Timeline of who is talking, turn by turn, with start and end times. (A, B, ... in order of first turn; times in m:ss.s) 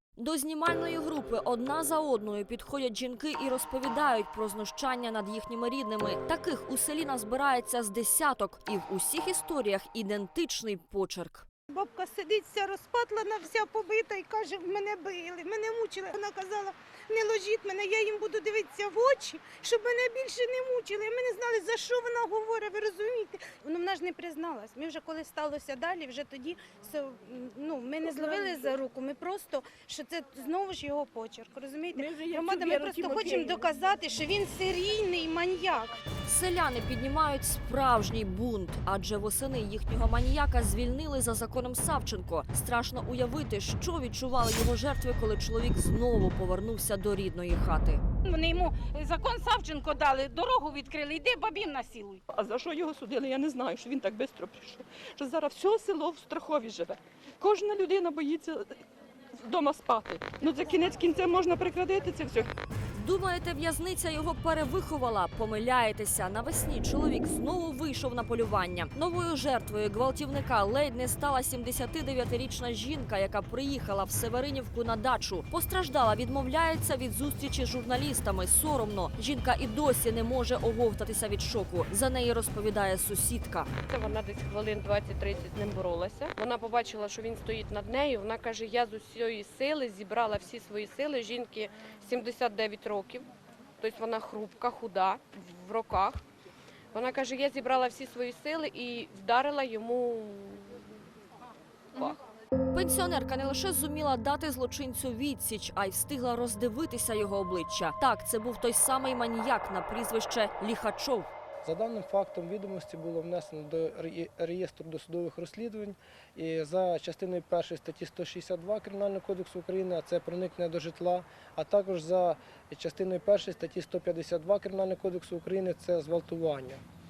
0:00.2-0:11.4 A
0:11.7-0:36.0 B
0:28.0-0:28.7 C
0:31.9-0:33.6 C
0:36.2-0:48.0 A
0:48.2-0:52.2 D
0:52.3-0:58.7 C
0:59.4-1:02.5 C
1:02.9-1:23.7 A
1:23.9-1:33.3 E
1:33.8-1:36.2 E
1:36.9-1:41.0 E
1:42.7-1:51.3 A
1:51.6-2:06.8 F